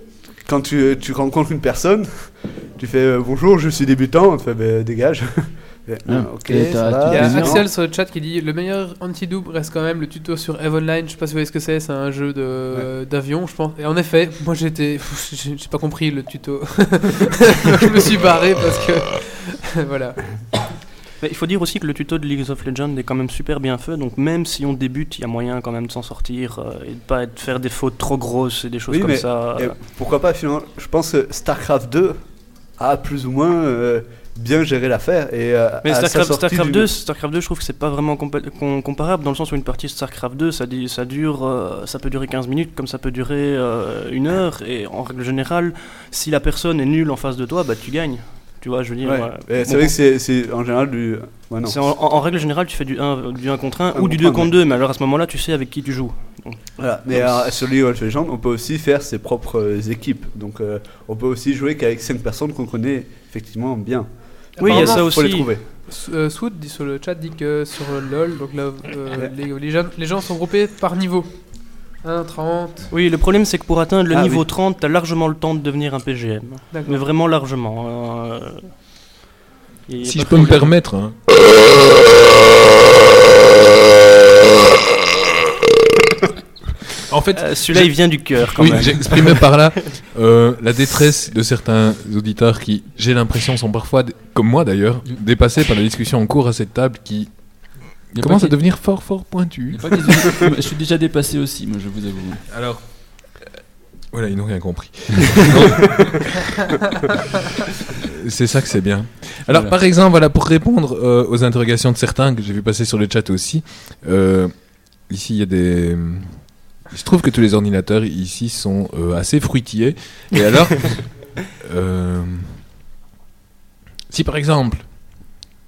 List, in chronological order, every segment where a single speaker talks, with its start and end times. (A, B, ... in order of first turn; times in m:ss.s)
0:00.4-0:07.7 A
0:06.1-0:07.6 B
0:07.1-0:20.2 C
0:21.2-0:29.8 D
0:28.9-0:32.2 A
0:32.8-0:36.9 A
0:35.8-0:49.9 D
0:49.0-0:51.8 A
0:51.6-0:56.6 D
0:53.9-0:54.5 A
0:56.8-1:04.1 A
0:57.1-0:57.4 D
1:04.6-1:05.1 C
1:04.6-1:05.5 D
1:04.6-1:05.6 A
1:05.9-1:11.5 C
1:12.0-1:12.9 C
1:12.9-1:18.8 D
1:14.1-1:14.4 A
1:16.7-1:17.0 C
1:19.9-1:20.7 D
1:20.0-1:21.6 E
1:27.1-1:40.0 E
1:27.4-1:29.4 D
1:38.1-1:38.6 B
1:39.7-1:42.4 B
1:42.5-1:43.3 E
1:44.1-1:46.5 E
1:47.9-2:02.6 E
2:04.1-2:04.9 E